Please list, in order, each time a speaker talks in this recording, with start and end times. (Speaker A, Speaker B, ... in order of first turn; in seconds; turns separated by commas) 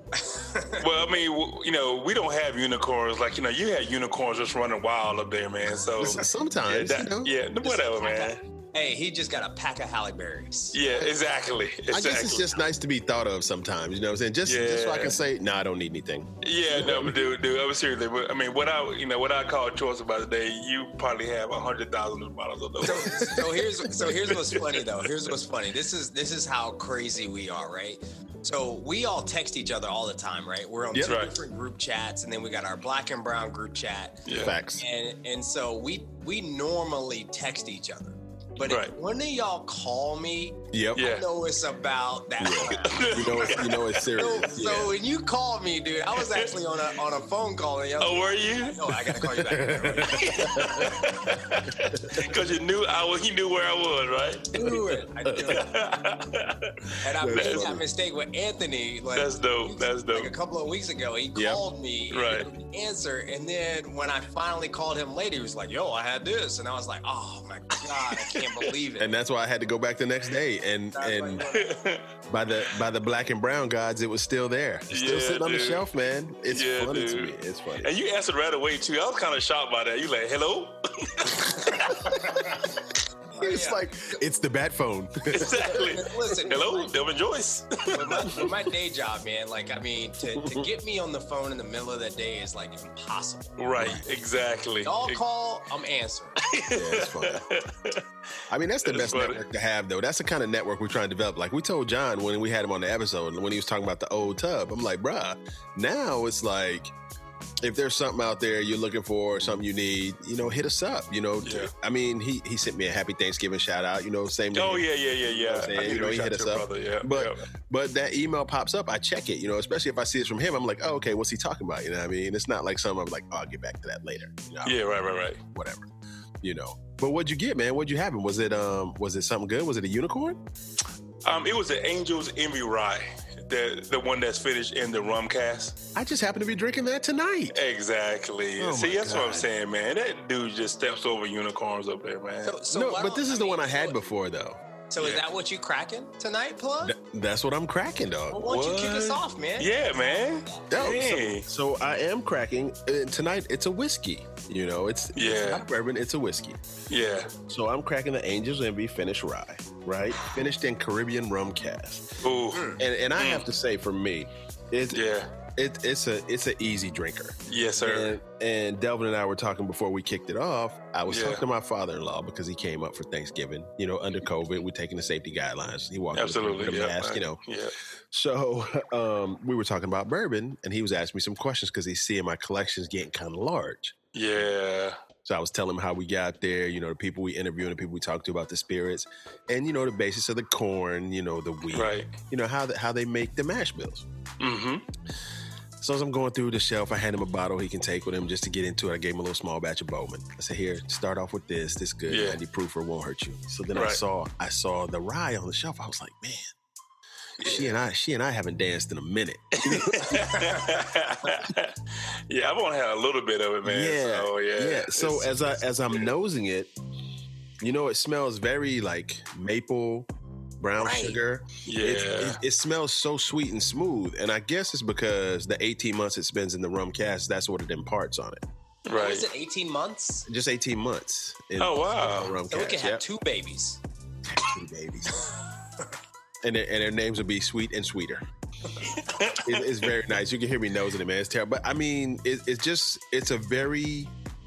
Speaker A: 0.2-0.8, Speaker B: 0.8-8.4, Speaker C: 6.0-7.3, Speaker A: 7.6-10.8, Speaker B: 10.7-12.5, Speaker C: 11.9-17.3, Speaker B: 14.4-15.2, Speaker B: 16.4-23.5, Speaker A: 22.8-50.9, Speaker C: 22.9-24.1, Speaker B: 24.0-24.9, Speaker B: 31.0-31.4, Speaker B: 34.3-34.5, Speaker C: 34.4-34.8, Speaker B: 38.6-38.9, Speaker C: 40.7-41.1, Speaker B: 41.0-41.3, Speaker C: 42.4-44.9, Speaker B: 42.7-43.9, Speaker B: 46.2-46.5, Speaker B: 48.0-49.4, Speaker C: 49.5-52.3, Speaker B: 50.1-57.8, Speaker A: 54.5-55.8, Speaker C: 55.2-55.6, Speaker A: 57.0-69.2, Speaker C: 57.2-57.8, Speaker B: 59.2-60.3, Speaker C: 61.3-61.6, Speaker B: 62.1-62.5, Speaker B: 68.1-68.6, Speaker C: 69.0-71.4, Speaker A: 70.9-71.8, Speaker B: 71.5-72.8, Speaker C: 72.3-77.9, Speaker B: 74.9-75.8, Speaker B: 76.5-82.1, Speaker A: 81.9-82.5, Speaker A: 83.3-83.8, Speaker C: 83.4-85.9, Speaker B: 85.3-88.5, Speaker A: 85.5-86.9, Speaker A: 87.9-93.6, Speaker C: 90.3-90.7, Speaker B: 93.6-95.2, Speaker C: 93.8-94.0, Speaker A: 94.8-96.4, Speaker B: 96.4-98.0, Speaker C: 96.7-97.4, Speaker C: 98.5-106.9, Speaker B: 98.8-99.4, Speaker C: 107.6-124.8, Speaker B: 111.4-111.7, Speaker B: 114.5-117.4, Speaker B: 124.7-125.4, Speaker C: 125.5-125.9, Speaker C: 126.4-130.4, Speaker B: 131.2-135.8, Speaker C: 135.9-137.6, Speaker B: 137.5-142.6, Speaker C: 138.6-139.5, Speaker A: 142.4-144.0, Speaker C: 142.7-144.6, Speaker A: 144.9-146.9, Speaker C: 146.8-148.5, Speaker A: 148.3-149.7, Speaker B: 148.4-151.5, Speaker C: 150.7-156.6, Speaker B: 155.2-155.7, Speaker B: 156.9-157.3, Speaker C: 157.3-162.2, Speaker B: 162.2-163.5, Speaker A: 162.5-162.8, Speaker C: 162.7-165.0, Speaker B: 164.9-165.3, Speaker C: 165.6-177.4, Speaker B: 167.4-168.2, Speaker B: 171.1-171.4, Speaker B: 176.1-177.7, Speaker C: 178.1-183.9, Speaker B: 184.2-185.0, Speaker C: 185.2-194.1, Speaker B: 191.7-192.1, Speaker B: 194.4-194.8, Speaker C: 195.8-206.5, Speaker B: 202.1-202.4, Speaker B: 203.7-204.0, Speaker B: 207.4-207.7, Speaker C: 207.4-210.4, Speaker B: 209.6-211.8, Speaker B: 212.3-216.1, Speaker C: 213.6-216.7, Speaker C: 217.6-220.1, Speaker C: 220.6-228.4, Speaker A: 220.8-221.2, Speaker B: 221.7-222.4, Speaker B: 228.9-229.3, Speaker A: 228.9-230.3, Speaker C: 230.3-233.0, Speaker B: 231.6-232.4, Speaker A: 232.5-233.8, Speaker C: 234.3-235.2, Speaker C: 236.4-238.2, Speaker B: 238.8-239.9, Speaker C: 239.4-244.1